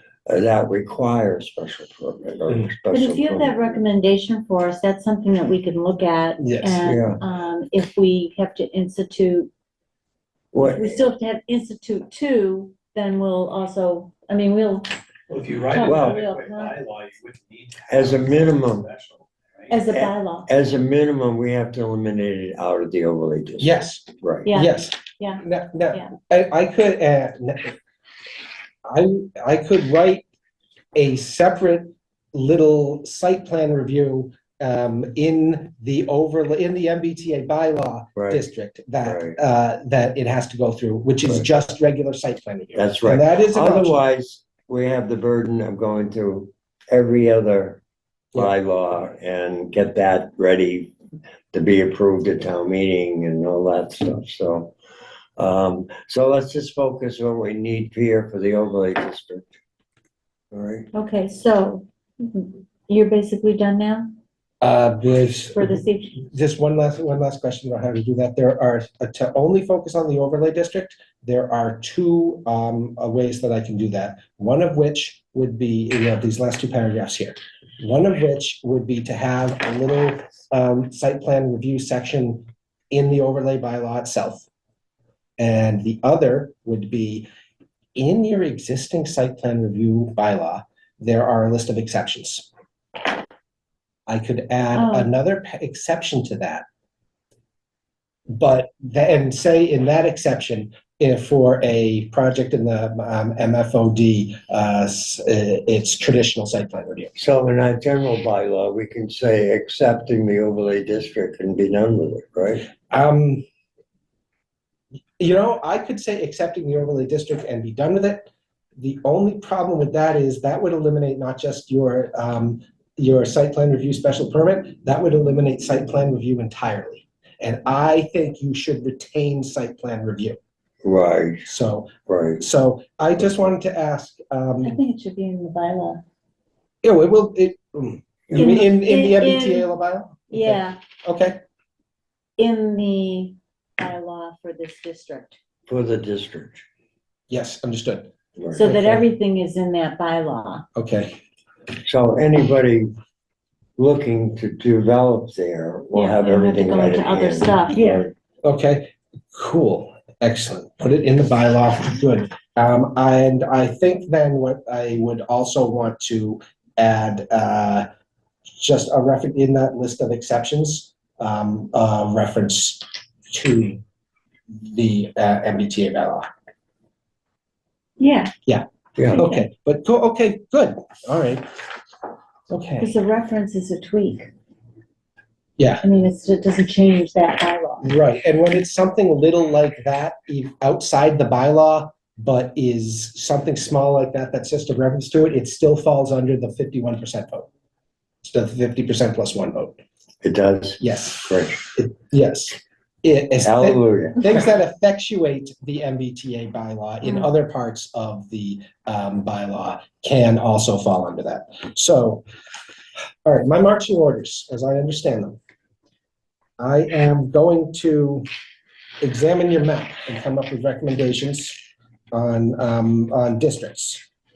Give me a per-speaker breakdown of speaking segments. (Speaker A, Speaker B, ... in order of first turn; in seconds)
Speaker A: 0.3-3.8, 6.8-7.2, 10.5-11.0, 15.8-16.2, 17.9-18.9, 19.9-24.5, 38.1-38.4, 39.0-39.4, 42.7-47.8, 48.3-50.9, 51.5-54.7, 55.4-59.6, 60.5-60.9, 107.1-112.7, 130.8-131.5, 132.1-132.4, 138.3-138.6, 145.7-146.6, 148.4-148.6, 151.8-152.9, 153.8-158.1, 179.0-179.2, 200.2-201.6, 203.4-204.2
Speaker B: 2.9-9.5, 10.6-14.9, 15.7-16.8, 19.7-20.5, 24.4-25.4, 60.9-64.1, 65.5-66.2, 94.7-95.1, 134.6-136.0, 138.3-139.7, 140.3-140.8, 142.4-145.4, 148.6-150.7, 155.9-158.1, 178.0-178.3, 179.2-179.4, 182.8-184.3, 185.8-187.9, 207.0-207.3
Speaker C: 6.4-6.8, 23.6-27.8, 28.9-30.2, 30.9-44.0, 64.6-84.5, 85.4-87.3, 88.0-92.5, 94.1-96.6, 98.3-107.1, 112.9-113.4, 115.2-130.4, 131.4-134.8, 136.8-141.4, 147.3-149.0, 150.8-151.1, 158.4-167.9, 168.5-173.8, 174.5-176.3, 178.4-181.4, 182.5-182.9, 185.6-185.8, 187.8-197.5, 198.2-199.8, 200.8-212.2, 213.2-215.4, 216.6-218.2, 219.0-221.6, 222.1-224.0
Speaker D: 15.3-19.8